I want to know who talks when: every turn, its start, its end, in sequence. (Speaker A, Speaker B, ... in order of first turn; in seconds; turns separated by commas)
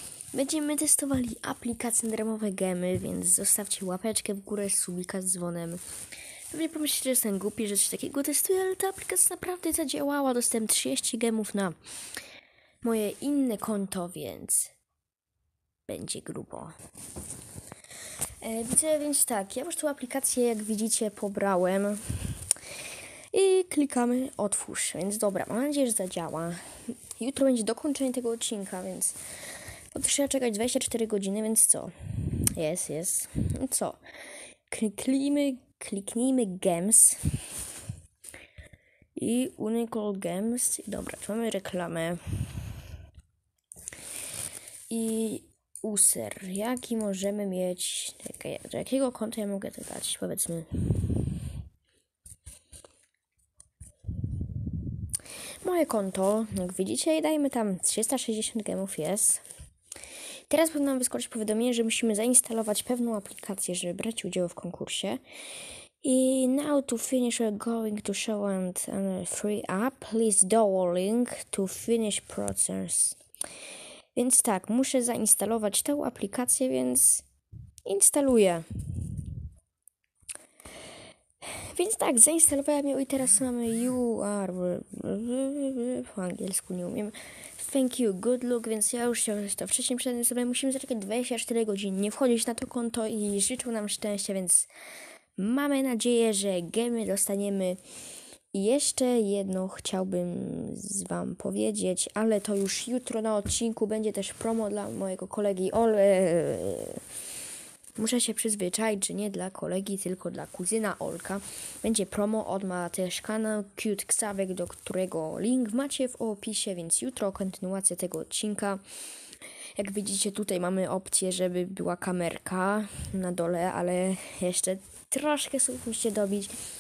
Speaker A: 0.3-5.8, Speaker A: 6.5-11.8, Speaker A: 12.8-14.7, Speaker A: 15.9-16.8, Speaker A: 18.4-22.4, Speaker A: 23.3-26.6, Speaker A: 27.2-29.2, Speaker A: 29.9-34.0, Speaker A: 34.7-37.4, Speaker A: 39.1-42.2, Speaker A: 44.9-51.2, Speaker A: 55.6-59.4, Speaker A: 60.5-65.2, Speaker A: 66.0-73.2, Speaker A: 74.2-77.2, Speaker A: 77.9-78.7, Speaker A: 81.4-94.7, Speaker A: 95.4-97.8, Speaker A: 98.5-107.0, Speaker A: 108.0-118.8, Speaker A: 119.8-126.5